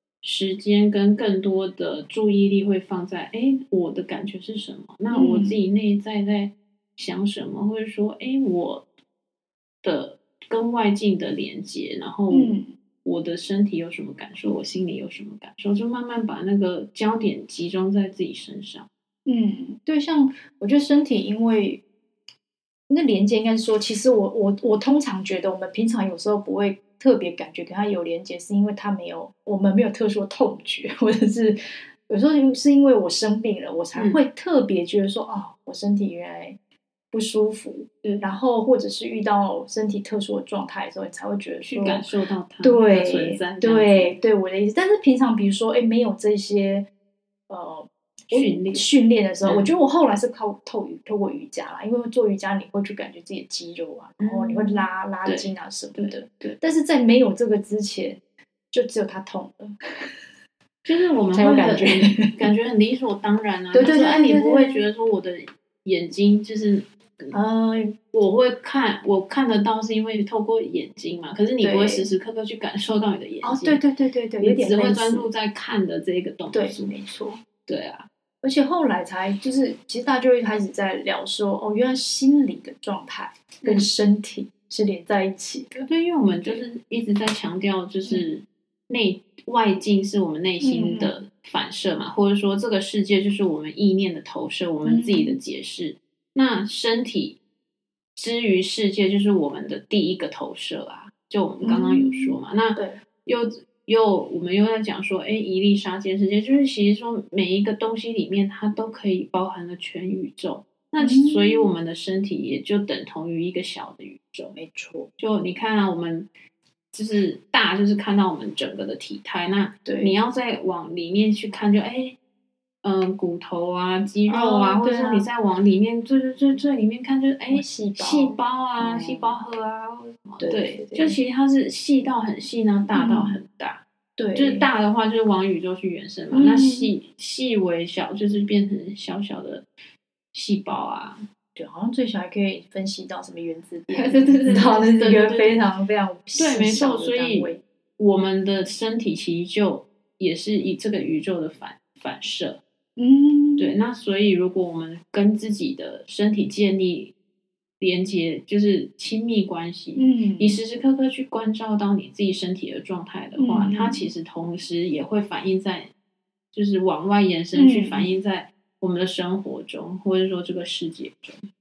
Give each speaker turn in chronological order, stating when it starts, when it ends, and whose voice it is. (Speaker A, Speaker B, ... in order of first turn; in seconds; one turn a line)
Speaker A: 0.2-8.8
Speaker B: 5.1-5.6
Speaker A: 9.8-18.9
Speaker B: 12.3-12.7
Speaker B: 19.2-21.8
Speaker B: 22.9-36.6
Speaker B: 37.1-42.0
Speaker A: 41.6-44.2
Speaker B: 42.6-46.9
Speaker B: 47.5-59.7
Speaker A: 48.3-48.9
Speaker A: 54.2-56.6
Speaker A: 60.8-67.3
Speaker B: 61.3-62.3
Speaker B: 63.7-64.8
Speaker B: 67.3-68.0
Speaker A: 68.1-73.8
Speaker B: 71.6-72.1
Speaker B: 73.4-75.3
Speaker A: 74.4-76.9
Speaker B: 76.5-77.4
Speaker A: 77.7-78.1
Speaker B: 78.4-86.7
Speaker A: 85.9-97.4
Speaker B: 90.6-91.2
Speaker B: 94.8-95.4
Speaker A: 98.2-114.5
Speaker B: 101.6-103.0
Speaker B: 111.0-111.7
Speaker B: 114.5-115.1
Speaker A: 115.2-116.3
Speaker A: 116.9-122.2
Speaker B: 119.8-120.2
Speaker A: 122.8-133.8
Speaker B: 124.3-125.2
Speaker B: 127.5-129.4
Speaker B: 130.4-131.2
Speaker B: 132.9-133.4
Speaker B: 134.2-134.7
Speaker A: 134.3-139.7
Speaker B: 136.3-136.9
Speaker A: 140.3-141.2
Speaker B: 141.5-147.6
Speaker A: 143.9-145.6
Speaker A: 146.3-152.6
Speaker B: 153.0-153.8
Speaker A: 153.6-157.1
Speaker A: 157.8-165.9
Speaker B: 160.0-160.6
Speaker B: 163.3-164.1
Speaker A: 166.5-171.4
Speaker B: 167.5-168.1